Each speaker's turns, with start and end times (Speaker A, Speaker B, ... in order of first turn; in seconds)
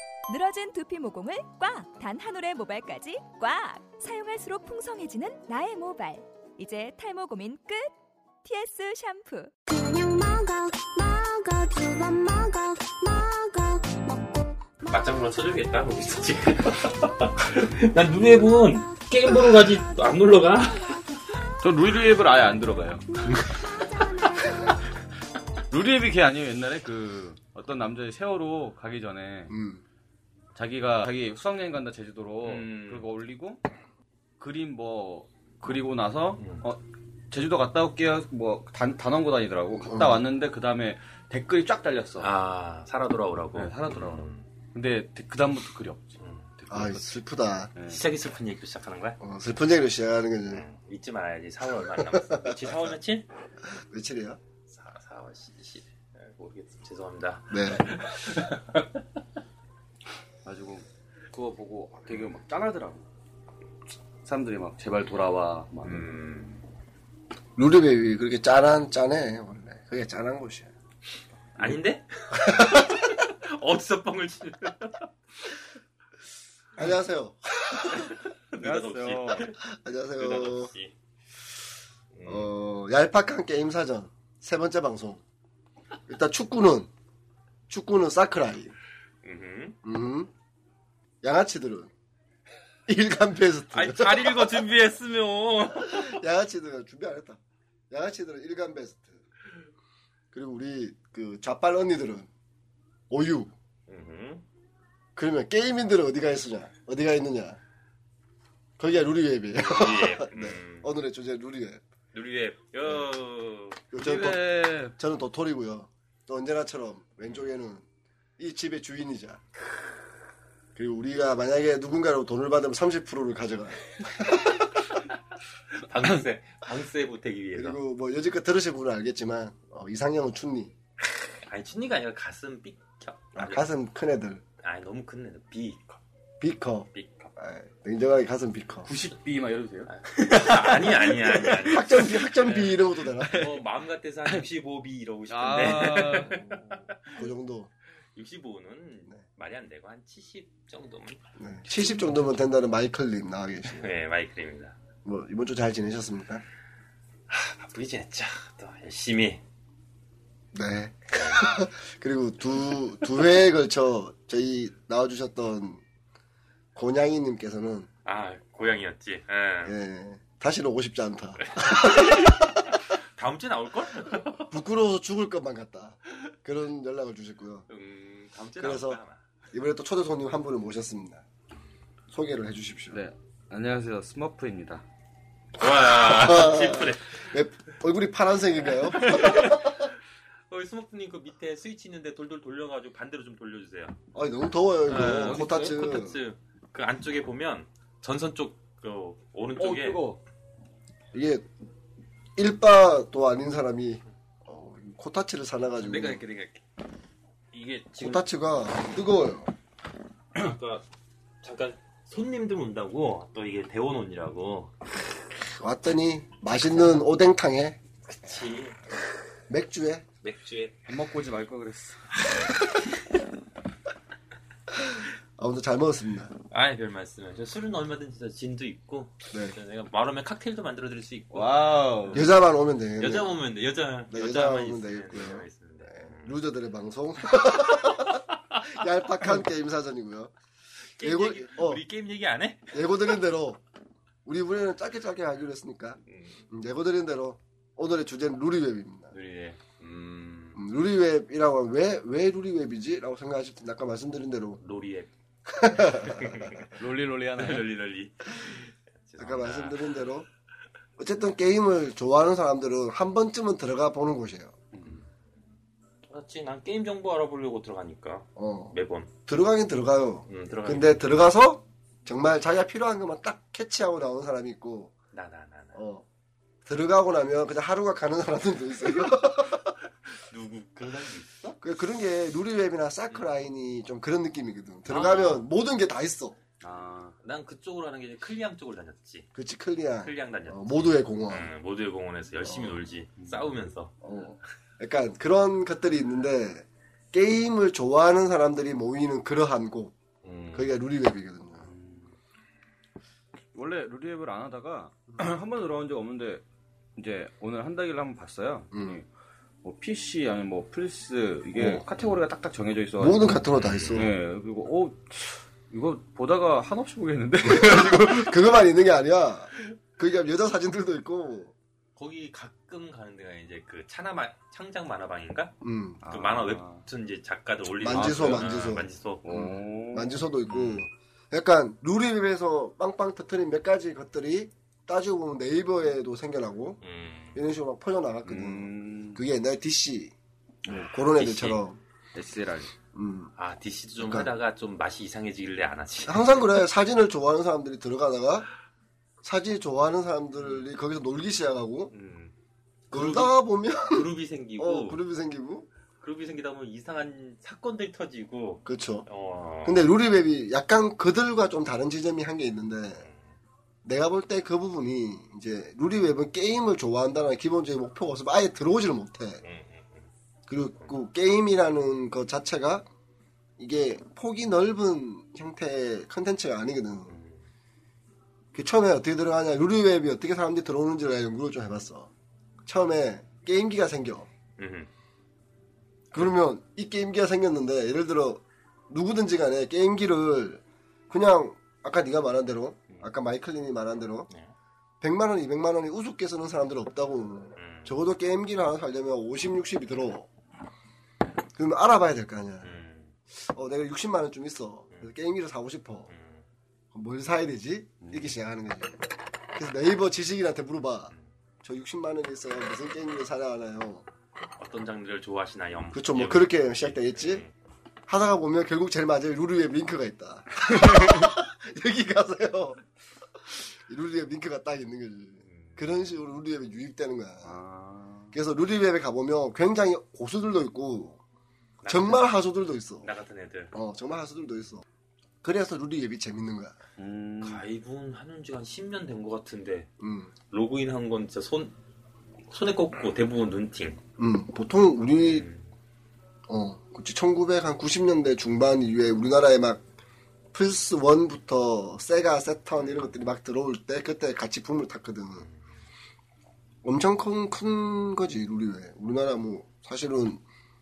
Speaker A: 0.3-7.9, 8.4-9.5
Speaker B: 9.7-14.3
Speaker C: 14.9-21.0, 32.4-33.1, 36.4-36.6, 42.2-44.4, 46.2-46.5, 47.9-49.2, 50.5-53.3, 54.7-59.0, 65.8-66.6, 71.6-75.1, 77.9-79.6, 80.2-80.9, 82.1-82.5, 89.2-89.8, 93.7-96.2, 103.9-104.4, 109.5-110.9, 112.1-113.8, 125.7-127.8, 131.4-133.7, 134.6-136.0, 136.9-137.3, 139.9-147.3, 148.1-151.2, 153.7-154.8, 157.3-159.4, 161.1-161.5, 168.0-169.8, 171.5-174.5, 177.7-179.2, 185.6-187.3, 188.9-189.9, 190.5-194.0, 194.9-200.0, 205.8-206.6, 207.5-208.3, 210.3-210.8, 211.4-214.7, 218.1-218.8, 220.2-220.9, 226.5-232.3, 233.0-236.4, 237.8-238.6, 241.0-242.9, 246.1-246.4, 249.1-250.6, 254.6-255.1, 255.7-256.7, 257.3-260.1, 266.1-269.1, 270.3-271.1, 275.1-275.8, 280.3-281.6, 284.9-285.5, 287.2-289.3, 290.0-293.9, 300.2-300.7, 313.5-314.1, 321.9-325.6, 326.1-329.5, 330.5-330.9, 336.8-337.4, 340.7-341.6, 343.4-346.4, 351.9-352.3, 352.9-355.0, 356.0-359.9, 363.0-363.3, 369.4-370.1, 377.1-377.4, 384.6-384.9, 397.6-397.9, 402.6-403.1, 406.1-406.4, 414.6-417.5, 425.4-426.0, 431.8-432.3, 433.0-433.7, 437.4-439.9, 440.5-441.8, 442.5-444.0, 445.2-445.6, 452.8-453.1
Speaker D: 21.6-23.5, 25.7-29.5, 30.5-33.6, 34.4-42.3, 43.5-47.1, 60.4-63.0, 63.9-66.1, 78.6-79.5, 114.0-114.9, 138.9-142.1, 143.2-143.5, 145.3-146.6, 182.9-184.8, 194.9-195.7, 199.6-200.2, 220.9-222.3, 231.3-232.2, 256.7-257.7, 264.7-265.0, 286.6-287.1, 293.2-293.5, 301.6-302.1, 303.5-306.4, 307.0-309.1, 309.6-318.4, 326.0-326.8, 327.9-330.2, 338.2-339.2, 342.1-342.7, 408.0-408.3, 427.4-428.3, 437.0-437.6
Speaker E: 29.5-29.8, 39.8-40.2, 46.7-47.7, 49.2-50.6, 52.0-52.7, 53.6-54.4, 57.5-57.9, 67.6-70.7, 72.4-73.0, 76.8-78.2, 79.6-80.7, 82.2-85.2, 86.1-86.9, 87.7-88.7, 89.8-90.3, 91.2-91.9, 92.9-94.7, 95.7-99.2, 100.3-102.3, 103.1-103.5, 105.2-107.6, 108.8-111.8, 113.9-117.8, 118.4-119.4, 120.8-123.8, 127.5-130.7, 133.3-134.4, 136.4-138.9, 141.6-143.5, 147.1-147.7, 151.4-153.9, 155.0-156.4, 160.5-165.8, 166.7-167.9, 169.6-172.7, 174.4-177.7, 178.6-179.0, 179.5-181.2, 182.1-183.0, 186.0-189.9, 194.1-196.2, 201.1-201.5, 202.3-206.2, 208.0-209.5, 215.6-217.8, 219.5-220.1, 224.7-226.3, 229.3-229.6, 232.1-233.4, 234.1-240.3, 241.0-241.8, 242.7-243.6, 244.2-249.1, 250.5-254.6, 255.5-256.5, 259.2-260.3, 261.0-264.6, 268.4-274.9, 275.7-276.1, 276.6-279.7, 281.6-286.4, 289.3-291.5, 292.4-292.8, 294.0-299.9, 300.5-301.7, 308.7-309.0, 311.5-311.8, 313.0-314.1, 317.4-321.5, 325.6-326.0, 327.8-336.8, 337.3-340.1, 340.6-341.8, 342.9-343.3, 344.0-344.3, 346.0-348.5, 349.2-351.9, 352.9-355.7, 358.6-359.1, 359.6-363.1, 363.8-369.4, 370.5-372.9, 373.6-377.2, 378.5-382.1, 382.6-384.3, 386.1-394.3, 395.0-400.3, 401.6-402.7, 403.4-406.1, 406.9-414.1, 415.9-417.4, 418.1-422.8, 423.5-427.6, 428.3-431.2, 431.9-433.1, 433.7-434.8, 435.4-436.8, 440.0-440.3, 444.2-445.5, 446.5-449.8, 450.5-455.5, 456.8-460.4